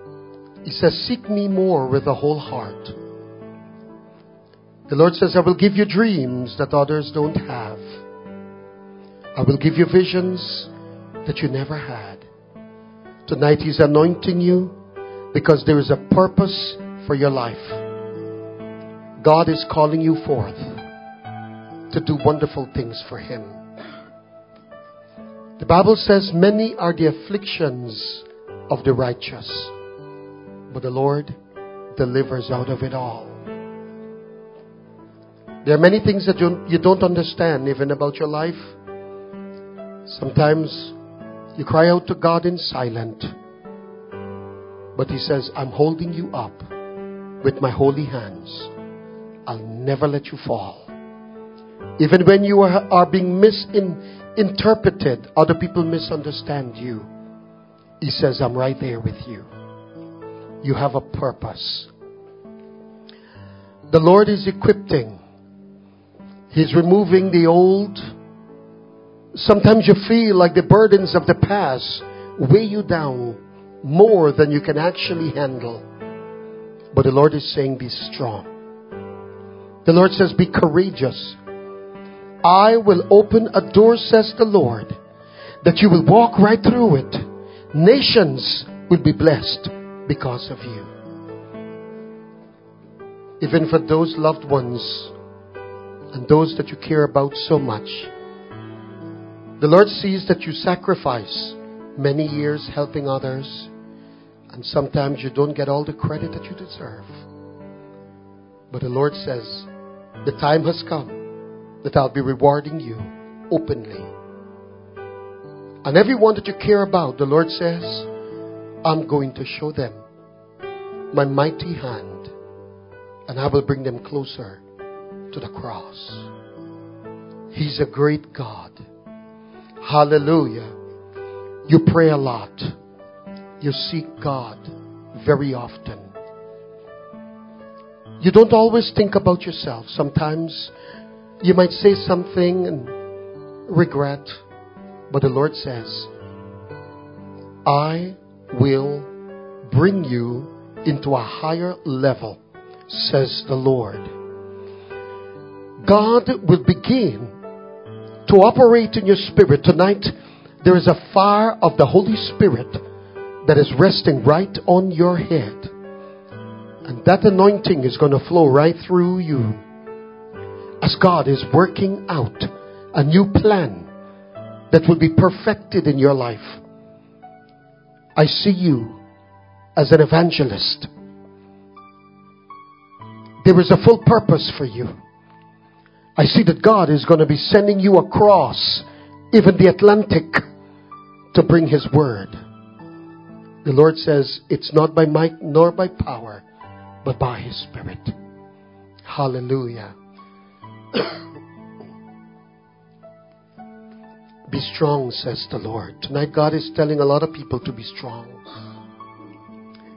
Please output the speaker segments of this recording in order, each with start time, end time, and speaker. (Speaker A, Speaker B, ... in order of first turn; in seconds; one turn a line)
Speaker A: 0.6-3.0
Speaker A: 4.9-7.8
Speaker A: 9.3-10.7
Speaker A: 11.2-12.2
Speaker A: 13.2-14.7
Speaker A: 15.3-17.8
Speaker A: 19.2-20.8
Speaker A: 21.9-23.6
Speaker A: 25.6-29.7
Speaker A: 30.7-31.3
Speaker A: 31.9-33.4
Speaker A: 35.6-38.7
Speaker A: 40.0-40.9
Speaker A: 41.5-43.3
Speaker A: 44.9-46.6
Speaker A: 47.4-48.7
Speaker A: 49.5-50.9
Speaker A: 52.0-57.1
Speaker A: 58.0-59.5
Speaker A: 60.6-61.9
Speaker A: 63.9-65.2
Speaker A: 66.5-68.1
Speaker A: 69.3-75.8
Speaker A: 76.9-78.5
Speaker A: 79.8-81.4
Speaker A: 82.4-85.0
Speaker A: 85.6-90.9
Speaker A: 93.4-95.1
Speaker A: 96.1-98.1
Speaker A: 99.6-103.7
Speaker A: 104.5-107.2
Speaker A: 108.7-109.7
Speaker A: 110.2-111.2
Speaker A: 111.8-114.1
Speaker A: 115.8-118.1
Speaker A: 118.8-120.0
Speaker A: 121.1-122.3
Speaker A: 123.3-124.6
Speaker A: 125.3-126.3
Speaker A: 127.5-128.8
Speaker A: 129.8-130.7
Speaker A: 131.7-132.8
Speaker A: 133.6-136.1
Speaker A: 138.2-140.7
Speaker A: 141.4-142.9
Speaker A: 143.7-144.4
Speaker A: 145.1-146.1
Speaker A: 147.6-149.1
Speaker A: 149.7-154.1
Speaker A: 155.8-157.3
Speaker A: 158.2-162.8
Speaker A: 163.4-165.7
Speaker A: 166.8-169.6
Speaker A: 170.8-173.9
Speaker A: 174.7-176.6
Speaker A: 178.2-179.0
Speaker A: 179.8-180.9
Speaker A: 183.4-185.0
Speaker A: 186.2-190.4
Speaker A: 191.3-192.3
Speaker A: 193.6-196.4
Speaker A: 197.0-198.1
Speaker A: 199.0-199.9
Speaker A: 204.5-208.4